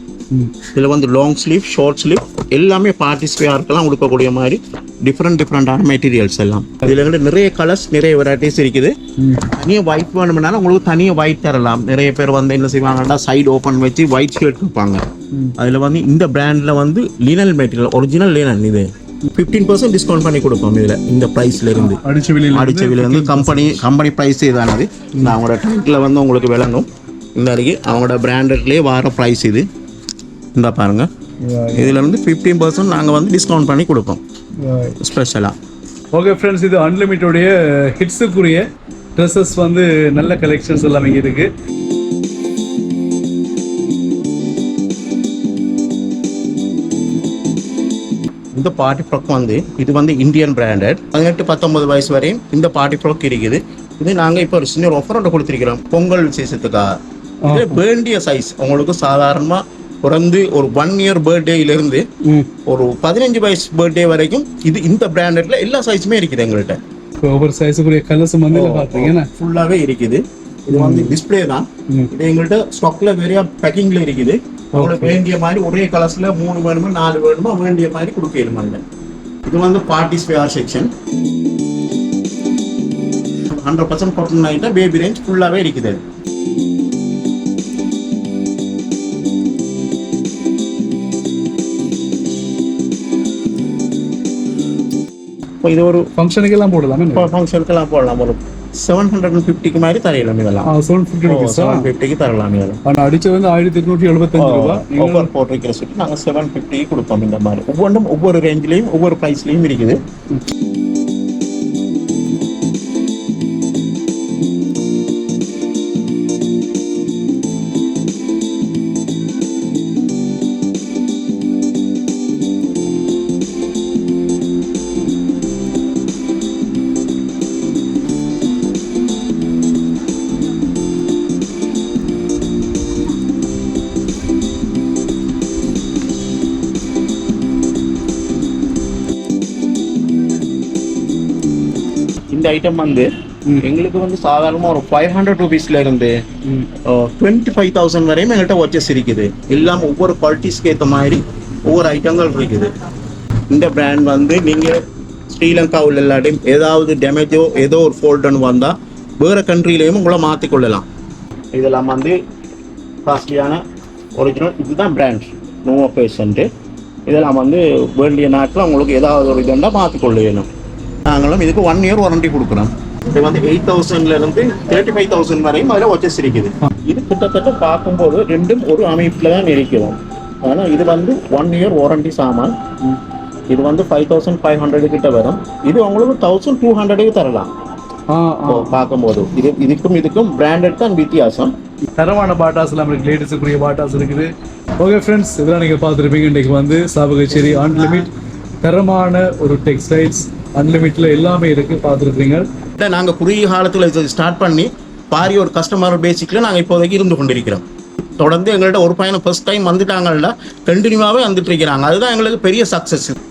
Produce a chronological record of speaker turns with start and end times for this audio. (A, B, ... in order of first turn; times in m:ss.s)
0:00.7-0:15.0 A
0:09.2-0:09.4 B
0:15.6-0:29.7 A
0:21.8-0:23.8 B
0:30.6-0:31.1 A
0:31.4-0:32.0 B
0:31.8-0:34.2 A
0:34.6-0:35.0 B
0:35.0-0:35.5 A
0:36.2-0:38.6 B
0:39.2-0:41.5 B
0:48.6-0:56.9 A
0:57.5-0:57.8 B
0:57.5-1:02.1 A
1:02.2-1:02.5 B
1:02.7-1:06.8 A
1:07.2-1:09.3 B
1:08.5-1:18.8 A
1:10.7-1:11.2 B
1:14.8-1:15.2 B
1:19.5-1:20.9 A
1:23.5-1:26.0 A
1:35.6-1:36.1 A
1:36.2-1:37.3 B
1:37.1-1:40.7 A
1:40.7-1:41.9 B
1:41.3-1:42.8 A
1:42.8-1:45.3 B
1:44.3-1:50.0 A
2:22.3-2:32.7 A
2:33.5-2:34.8 A
2:35.3-2:40.8 A
2:41.5-2:42.2 A
2:43.0-2:43.6 A
2:44.2-2:46.5 A
2:47.1-2:50.5 A
2:51.1-3:02.5 A
3:03.5-3:07.5 A
3:08.1-3:08.7 B
3:08.5-3:11.5 A
3:12.0-3:18.1 B
3:18.6-3:22.5 B
3:22.8-3:27.6 A
3:28.2-3:33.2 A